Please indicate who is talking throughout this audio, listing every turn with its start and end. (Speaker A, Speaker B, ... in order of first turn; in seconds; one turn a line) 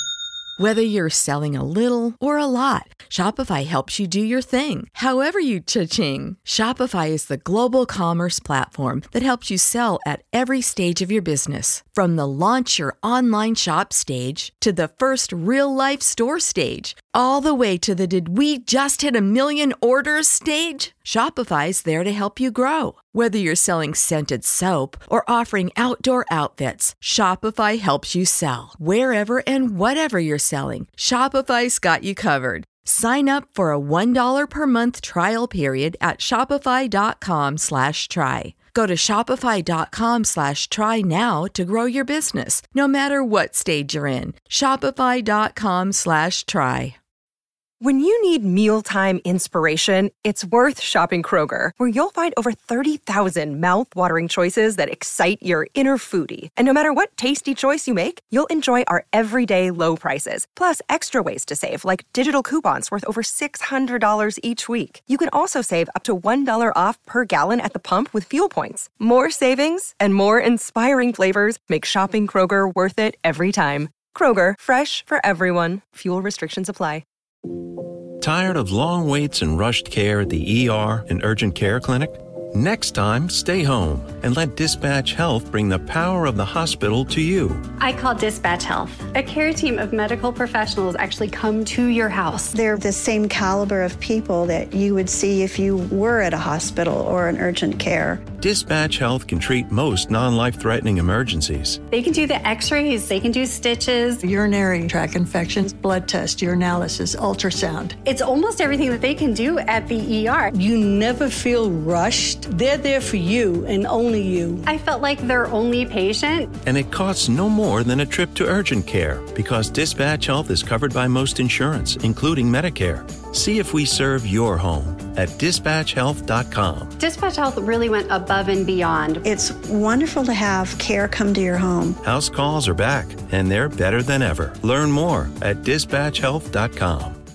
Speaker A: 0.6-47.0
Speaker B: 47.8-77.0
Speaker C: 78.2-87.6
Speaker D: 87.8-92.5
Speaker E: 92.5-98.3
Speaker C: 98.4-101.8
Speaker D: 101.9-104.2
Speaker F: 104.2-108.0
Speaker D: 108.0-110.5
Speaker G: 110.5-114.6
Speaker D: 114.7-116.5
Speaker C: 116.7-126.9
Speaker D: 127.0-129.2
Speaker E: 129.2-132.0
Speaker C: 132.0-137.2